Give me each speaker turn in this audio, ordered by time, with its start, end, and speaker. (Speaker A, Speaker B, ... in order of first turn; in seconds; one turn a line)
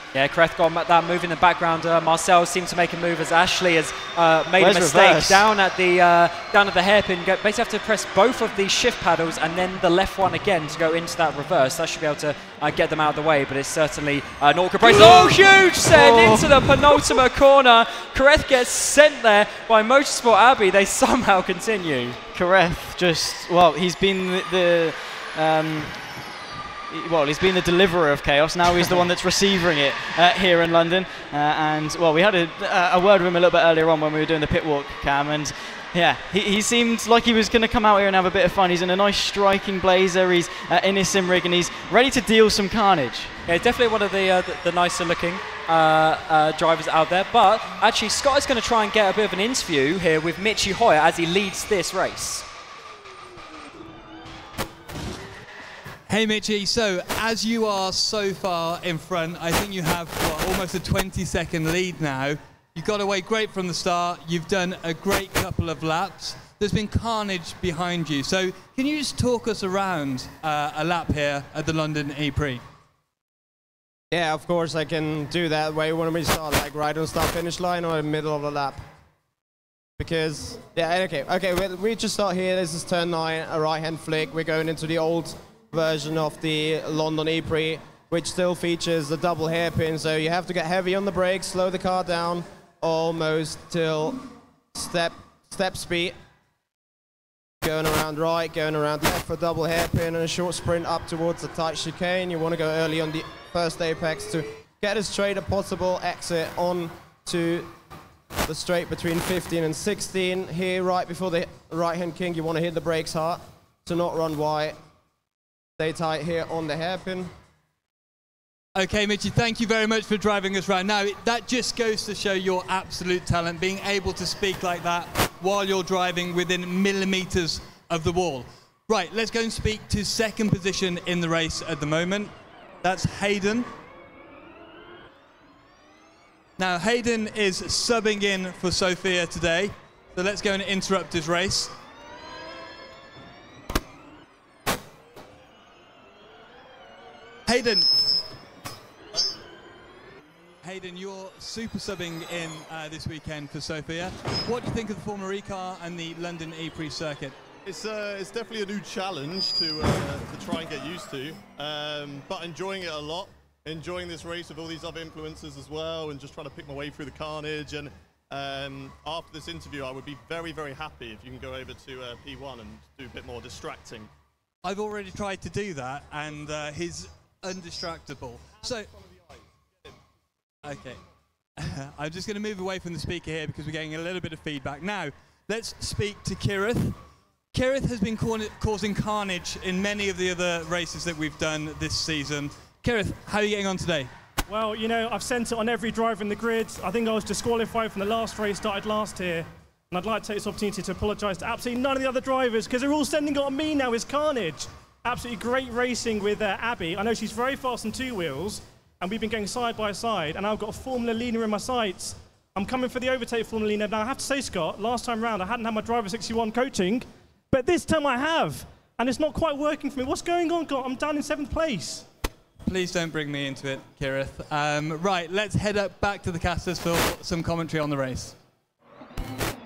Speaker A: 0.1-22.2
Speaker B: 4.6-5.4
Speaker B: 14.8-17.2
Speaker B: 22.3-26.0
Speaker B: 26.9-43.3
Speaker A: 43.5-52.5
Speaker C: 56.1-72.6
Speaker D: 74.1-78.8
Speaker D: 80.0-94.2
Speaker D: 94.7-96.1
Speaker D: 97.6-107.7
Speaker D: 108.5-114.8
Speaker D: 115.8-117.3
Speaker C: 118.8-132.3
Speaker C: 132.8-133.7
Speaker C: 136.6-141.7
Speaker C: 147.5-147.9
Speaker C: 150.6-157.3
Speaker E: 157.7-174.1
Speaker C: 174.6-178.9
Speaker C: 180.6-181.0
Speaker C: 181.6-187.0
Speaker C: 187.5-194.1
Speaker F: 194.5-222.0
Speaker C: 222.7-228.3